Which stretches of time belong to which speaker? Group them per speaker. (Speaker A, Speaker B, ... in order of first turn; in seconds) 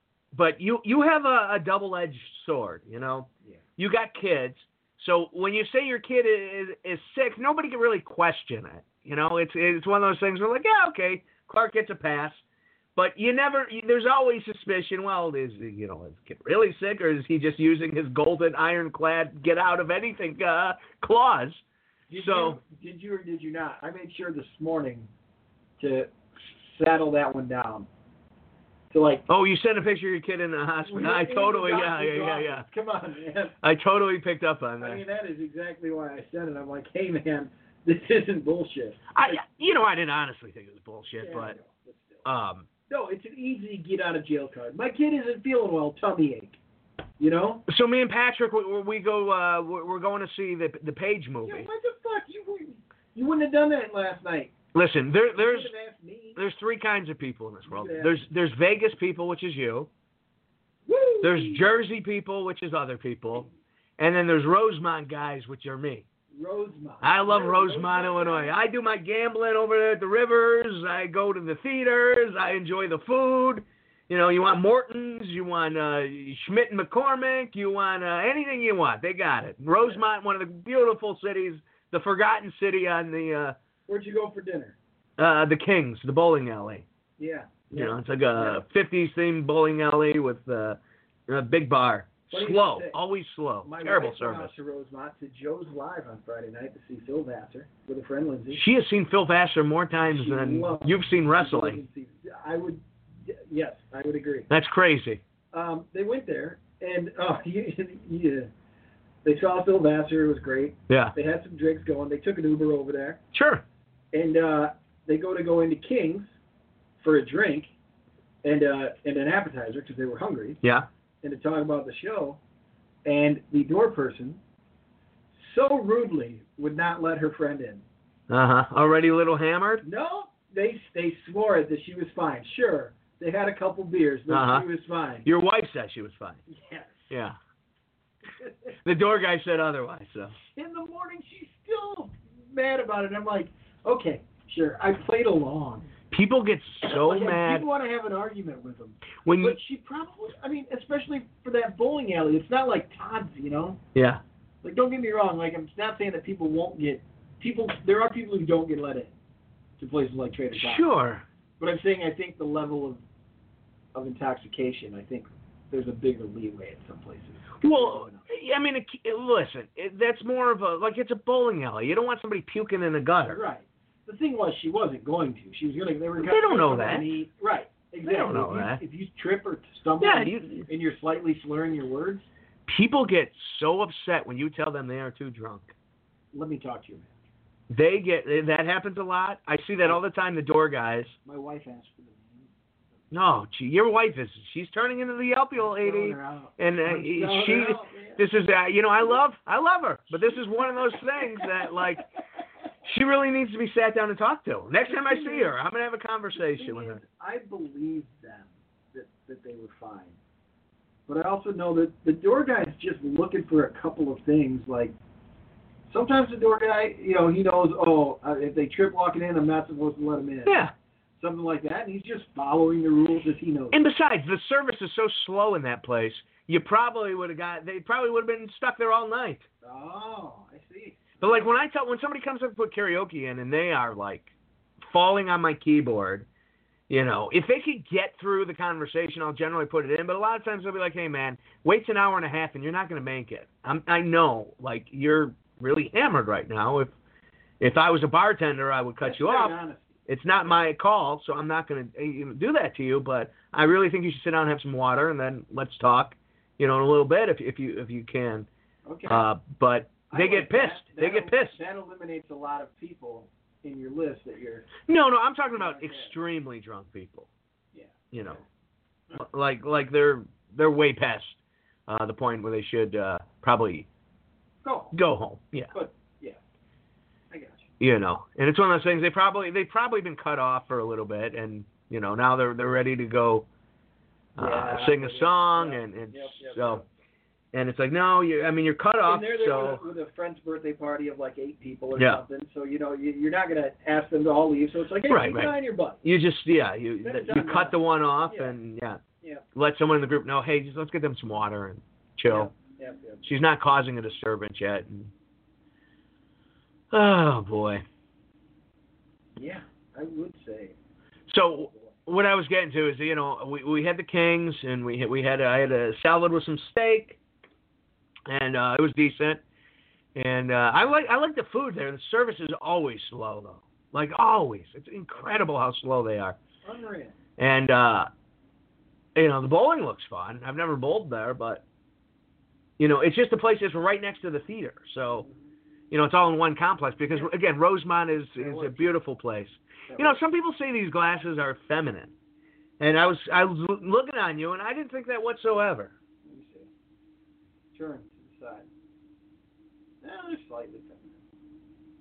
Speaker A: 0.3-12.4, 12.9-21.6, 22.1-22.6, 29.3-32.6, 33.6-35.0, 39.1-41.6, 42.2-42.7, 47.7-51.7, 54.7-55.7, 56.4-59.9, 61.2-66.0, 67.0-83.5, 85.2-86.8, 87.7-94.5, 98.5-101.8, 104.5-105.2, 110.9-111.1, 113.3-113.6, 128.3-129.8, 134.3-134.7, 135.2-136.4, 137.1-137.4, 138.8-140.3, 146.1-147.6, 149.2-149.6, 153.9-154.2, 160.5-161.2, 167.6-173.4, 176.2-177.1, 178.0-178.8, 180.0-180.7, 182.7-185.7, 187.7-191.1, 193.1-202.1, 202.8-207.0, 220.5-220.7, 223.7-229.4, 231.2-236.2, 236.9-246.9, 247.6-249.5, 250.1-258.5, 259.1-261.6, 264.9-267.3, 268.1-268.4, 269.1-273.9, 274.9-275.7, 277.8-283.5, 284.4-286.8, 287.5-289.8, 295.1-299.0, 299.5-302.5, 303.2-305.1, 306.9-307.8, 311.3-317.2, 318.3-319.4, 320.1-326.4, 327.4-328.1, 329.1-331.6, 332.8-335.3, 335.9-342.1, 342.8-345.9
Speaker B: 22.1-25.1, 25.8-27.9, 28.9-29.2, 30.9-33.5, 34.8-39.4, 41.2-42.3, 42.9-46.6, 47.2-47.6, 51.4-54.5, 55.3-56.4, 57.6-58.2, 60.9-61.7, 66.3-68.5, 83.9-84.8, 87.2-88.6, 92.3-93.0, 93.6-98.6, 100.1-104.5, 105.5-108.5, 109.2-113.2, 114.1-116.3, 117.0-117.7, 118.4-120.6, 121.2-122.4, 123.0-124.4, 125.3-127.8, 129.8-135.2, 136.5-137.1, 138.4-138.7, 140.5-145.9, 146.9-153.8, 154.6-159.1, 159.8-160.9, 161.6-163.0, 163.9-168.3, 173.2-182.3, 186.3-187.1, 191.2-192.5, 195.6-198.2, 201.2-201.5, 204.8-205.5, 206.4-210.2, 211.1-214.9, 215.9-220.6, 221.2-223.8, 229.6-231.5, 249.0-250.6, 258.9-259.3, 260.1-264.7, 265.6-266.1, 267.7-268.4, 274.6-274.9, 275.7-276.4, 277.3-277.7, 284.4-286.9, 289.0-296.0, 297.0-298.5, 302.3-303.3, 309.4-310.7, 311.6-311.9, 326.6-327.1, 338.4-338.9, 339.9-340.2, 346.2-346.7, 347.7-348.7, 350.0-351.2